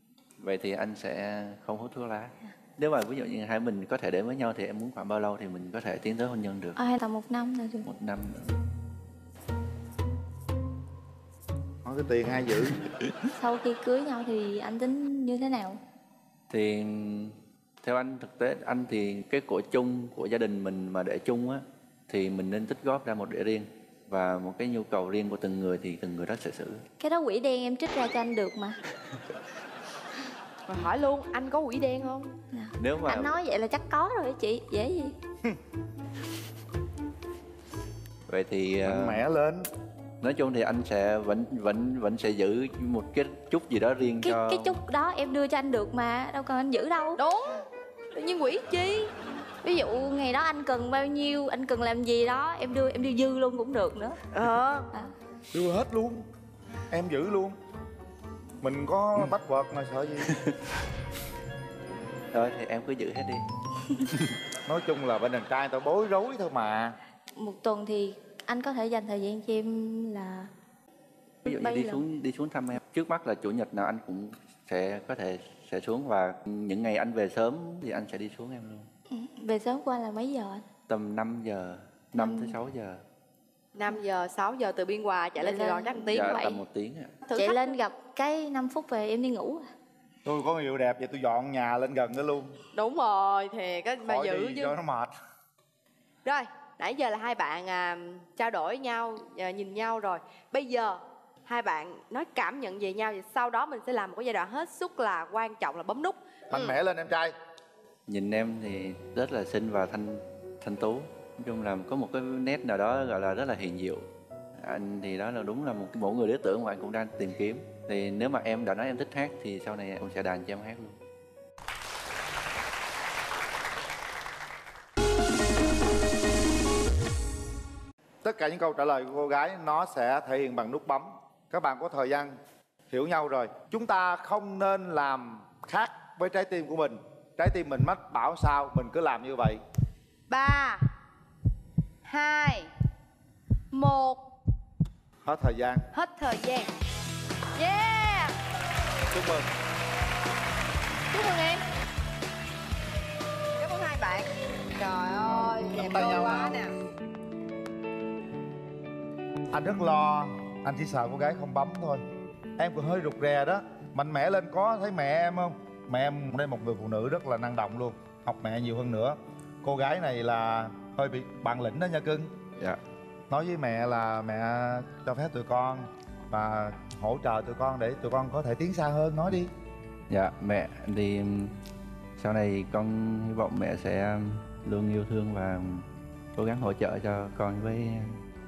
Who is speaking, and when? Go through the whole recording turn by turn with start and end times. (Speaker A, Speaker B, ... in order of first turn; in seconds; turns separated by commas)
Speaker A: 0.4-6.8, Speaker B: 6.8-7.9, Speaker A: 7.9-8.6, Speaker C: 11.8-12.8, Speaker B: 13.3-15.8, Speaker A: 16.5-26.8, Speaker B: 27.0-28.8, Speaker D: 30.7-32.3, Speaker B: 32.5-35.1, Speaker A: 32.8-33.4, Speaker A: 38.3-39.2, Speaker C: 38.8-39.7, Speaker A: 40.2-44.8, Speaker B: 44.2-47.2, Speaker D: 47.2-49.1, Speaker B: 49.6-54.1, Speaker D: 54.3-54.9, Speaker C: 55.5-56.2, Speaker C: 56.9-57.5, Speaker C: 58.6-60.3, Speaker A: 60.3-60.5, Speaker A: 62.3-63.4, Speaker B: 63.8-64.1, Speaker C: 64.7-67.0, Speaker B: 67.4-70.5, Speaker B: 71.5-72.0, Speaker A: 71.5-78.9, Speaker B: 79.1-80.7, Speaker A: 80.9-83.0, Speaker B: 82.2-82.6, Speaker D: 83.8-86.5, Speaker B: 85.4-86.6, Speaker A: 86.2-87.2, Speaker D: 87.3-87.8, Speaker B: 87.3-89.7, Speaker C: 90.2-92.5, Speaker D: 92.7-94.7, Speaker C: 94.0-95.1, Speaker D: 96.2-106.8, Speaker C: 106.5-107.3, Speaker A: 108.1-114.0, Speaker A: 114.6-121.0, Speaker C: 128.2-132.4, Speaker C: 132.9-139.6, Speaker D: 140.3-140.8, Speaker D: 142.1-142.7, Speaker D: 143.7-144.2, Speaker C: 145.2-145.8, Speaker D: 145.9-146.7, Speaker D: 147.6-148.4, Speaker C: 149.1-149.5, Speaker D: 151.1-151.6, Speaker D: 153.6-156.7, Speaker C: 155.8-156.6, Speaker C: 159.5-162.0, Speaker C: 162.6-172.3, Speaker C: 173.3-179.5, Speaker A: 180.1-181.5, Speaker A: 182.2-185.8, Speaker A: 186.4-188.2